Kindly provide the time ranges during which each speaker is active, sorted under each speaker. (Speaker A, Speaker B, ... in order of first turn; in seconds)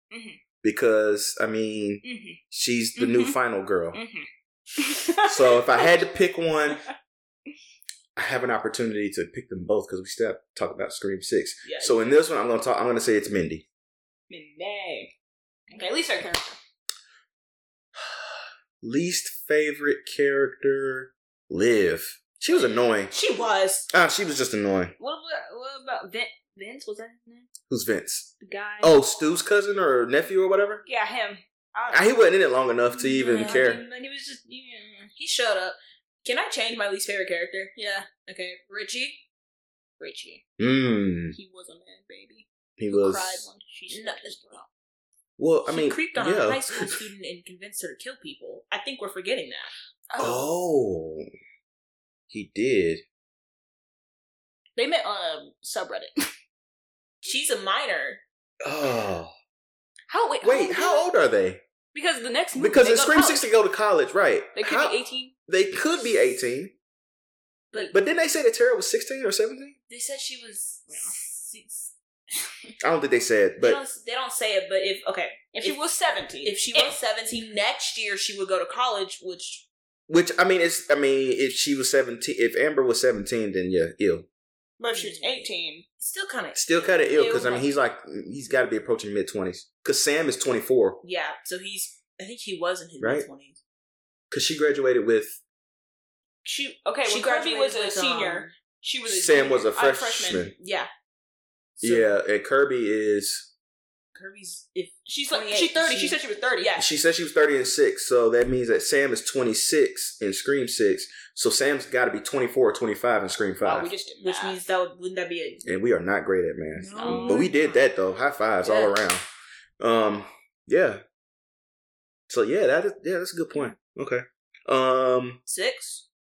Speaker A: 0.1-0.4, 2.0-2.4, 3.0-3.4, 3.9-5.9, 14.3-15.1, 15.7-16.6, 25.0-27.5, 28.4-29.0, 30.9-32.2, 32.9-35.1, 37.8-38.1, 40.0-40.4, 41.3-44.7, 50.1-50.5, 54.8-56.3, 60.1-61.1, 61.9-63.5, 64.5-65.3, 72.5-72.7, 75.5-77.0, 84.8-85.8, 96.4-100.5, 105.0-106.7, 113.6-114.6, 117.0-117.5
Speaker B: 0.6-4.0, 5.2-6.8, 8.2-13.6, 17.9-23.1, 23.9-24.9, 27.7-28.3, 28.8-30.8, 31.9-33.8, 40.6-41.4, 42.8-43.5, 45.4-47.0, 50.2-51.2, 52.3-53.0, 58.6-59.3, 60.4-61.6, 62.5-66.7, 67.9-69.8, 72.8-73.8, 80.1-84.3, 86.5-91.0, 93.0-93.3, 94.3-95.4, 99.1-100.5, 101.8-103.5, 106.8-113.9, 115.6-119.2, 119.8-121.0, 122.3-125.4
Speaker C: 11.6-12.2, 22.5-23.9, 33.3-33.8, 35.1-37.7, 38.2-39.2, 43.9-44.4, 45.7-49.7, 57.2-58.2, 69.9-71.9, 73.6-75.8, 76.4-79.7, 84.9-87.7, 91.0-93.6, 97.0-98.5, 100.5-100.9, 101.8-102.1, 104.1-106.9, 114.2-115.7, 116.7-117.8, 118.6-119.0, 125.5-126.0